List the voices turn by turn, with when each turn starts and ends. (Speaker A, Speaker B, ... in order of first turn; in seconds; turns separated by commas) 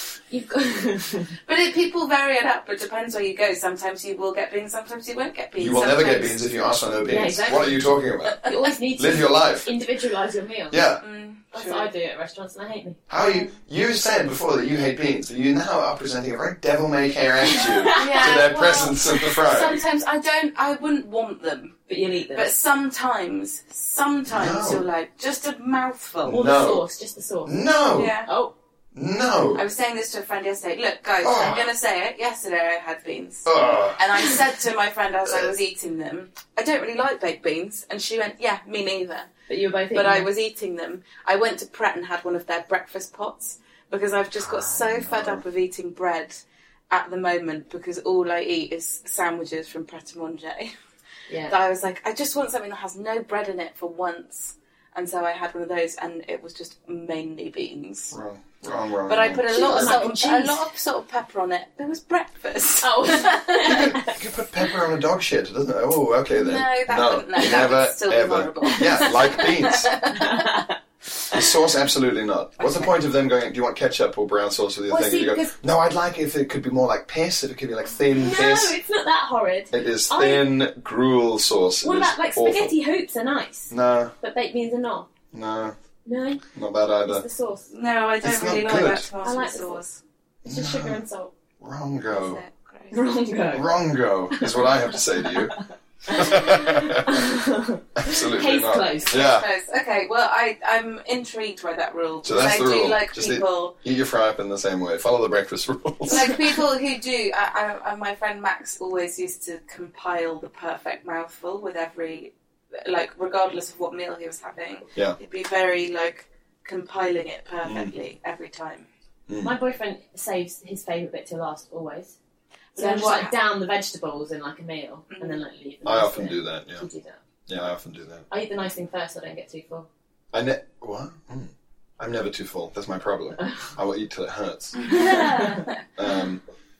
Speaker A: 0.3-1.4, Speaker B: 1.4-6.4, Speaker C: 5.6-8.4, Speaker A: 7.1-10.8, Speaker B: 8.2-8.6, Speaker C: 8.9-9.7, Speaker C: 10.7-11.0, Speaker B: 11.0-11.9, Speaker A: 11.5-13.0, Speaker C: 13.1-19.8, Speaker B: 13.2-13.6, Speaker A: 17.5-18.4, Speaker B: 17.9-21.8, Speaker A: 21.9-22.5, Speaker B: 22.3-26.4, Speaker C: 24.3-24.8, Speaker C: 26.2-26.8, Speaker A: 26.3-27.6, Speaker C: 27.4-28.2, Speaker B: 27.9-28.3, Speaker A: 28.2-28.5, Speaker C: 28.9-29.6, Speaker B: 29.5-39.3, Speaker C: 31.2-31.7, Speaker C: 33.5-34.4, Speaker C: 35.2-35.5, Speaker A: 39.5-40.3, Speaker B: 39.9-50.7, Speaker C: 44.4-45.4, Speaker A: 51.3-51.5, Speaker B: 51.5-58.1, Speaker C: 58.1-60.1, Speaker B: 59.1-63.9, Speaker A: 59.5-60.6, Speaker A: 62.8-64.2, Speaker C: 63.7-69.9, Speaker B: 66.3-70.4, Speaker A: 68.6-69.0, Speaker A: 70.1-70.8, Speaker C: 71.3-78.8, Speaker A: 74.9-75.5, Speaker A: 78.1-80.5, Speaker C: 79.7-82.7, Speaker A: 81.8-85.1, Speaker C: 83.7-84.1, Speaker C: 85.3-85.7, Speaker A: 86.0-86.4, Speaker C: 86.5-87.2, Speaker A: 87.0-87.7, Speaker B: 87.7-90.0, Speaker C: 88.2-89.1, Speaker A: 89.2-89.8, Speaker C: 90.4-91.0, Speaker A: 90.5-91.3, Speaker C: 91.6-92.4, Speaker B: 92.1-93.0, Speaker A: 92.9-93.7, Speaker C: 93.5-95.5, Speaker A: 94.3-99.2, Speaker C: 96.1-97.3, Speaker C: 97.9-99.5, Speaker B: 99.0-103.7, Speaker C: 102.2-106.4, Speaker B: 106.1-118.9, Speaker C: 117.6-117.9, Speaker C: 119.3-119.5, Speaker A: 119.4-122.2, Speaker B: 122.7-123.4, Speaker A: 122.8-127.2, Speaker B: 125.1-125.4, Speaker C: 125.8-126.8, Speaker C: 127.5-128.2, Speaker A: 128.3-129.9, Speaker C: 130.3-134.8, Speaker A: 134.8-135.7, Speaker B: 134.8-135.8, Speaker C: 136.0-136.4